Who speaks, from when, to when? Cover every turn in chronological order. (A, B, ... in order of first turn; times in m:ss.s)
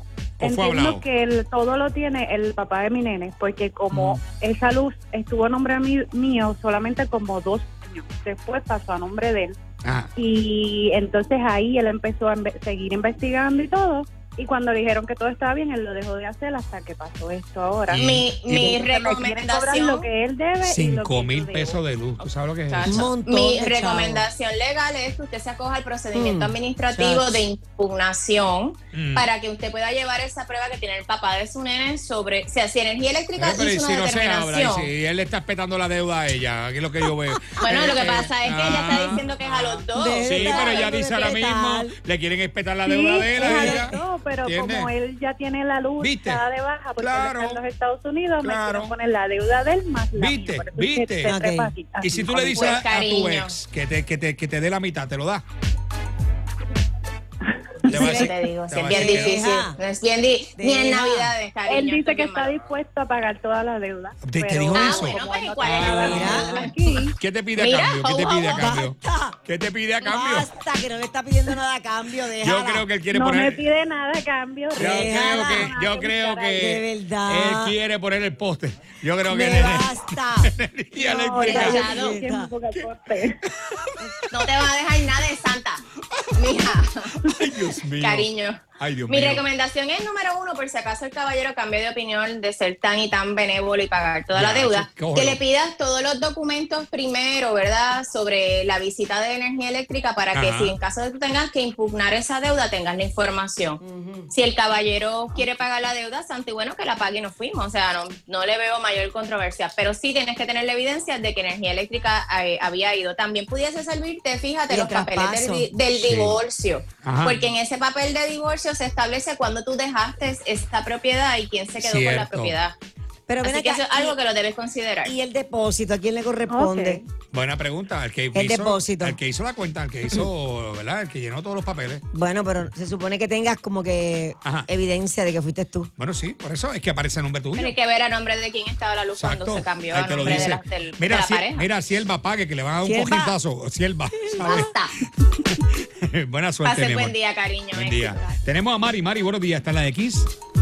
0:00.4-0:01.0 A
0:00.4-0:09.6 B
0:03.9-0:04.2 A
0:09.8-0:10.1 A
0:10.2-0:21.8 B
0:17.9-0:20.1 C
0:17.9-0:18.6 A
0:20.6-0:23.0 A
0:22.2-0:34.9 C
0:22.8-0:24.2 D
0:26.1-0:27.4 D
0:28.9-0:29.3 A
0:33.4-0:44.9 A
0:37.6-0:38.0 D
0:37.6-0:41.0 C
0:39.9-0:41.9 D
0:42.8-0:52.5 B
0:43.3-0:44.0 D
0:46.0-0:47.6 A
0:48.4-0:48.9 A
0:50.2-0:51.4 A
0:51.2-0:51.7 D
0:52.0-0:55.4 A
0:52.3-0:52.8 D
0:52.5-0:53.6 C
0:57.9-0:58.3 D
0:57.9-0:59.4 A
0:57.9-1:02.6 C
0:58.9-0:59.8 D
1:00.6-1:01.3 D
1:01.7-1:07.1 B
1:04.2-1:06.6 A
1:04.7-1:06.9 C
1:06.0-1:06.7 D
1:07.2-1:10.5 A
1:07.6-1:08.7 C
1:08.5-1:09.4 D
1:10.0-1:12.9 D
1:12.4-1:13.6 A
1:13.1-1:16.6 B
1:14.7-1:15.7 D
1:14.8-1:21.8 A
1:16.6-1:17.8 D
1:19.3-1:20.5 D
1:21.0-1:23.4 B
1:21.1-1:22.5 D
1:21.4-1:22.2 C
1:24.3-1:25.8 C
1:26.4-1:27.2 C
1:27.2-1:28.3 A
1:27.9-2:02.8 C
1:28.8-1:29.4 A
1:34.3-1:35.4 A
1:40.3-1:40.8 A
1:43.8-1:44.3 D
1:54.7-1:55.7 D
1:55.9-1:56.4 A
1:57.0-1:57.4 A
2:01.8-2:02.6 A
2:03.3-2:04.2 D
2:03.4-2:05.1 C
2:05.0-2:07.0 D
2:06.5-2:07.0 B
2:07.3-2:12.0 A
2:08.3-2:09.2 D
2:12.1-2:15.9 D
2:16.0-2:17.7 A
2:17.6-2:21.7 C
2:19.2-2:24.8 A
2:20.1-2:20.5 D
2:22.8-2:23.4 D
2:24.3-2:24.7 D
2:24.4-2:24.9 C
2:25.4-2:27.1 A
2:26.6-2:28.3 C
2:27.7-2:30.3 A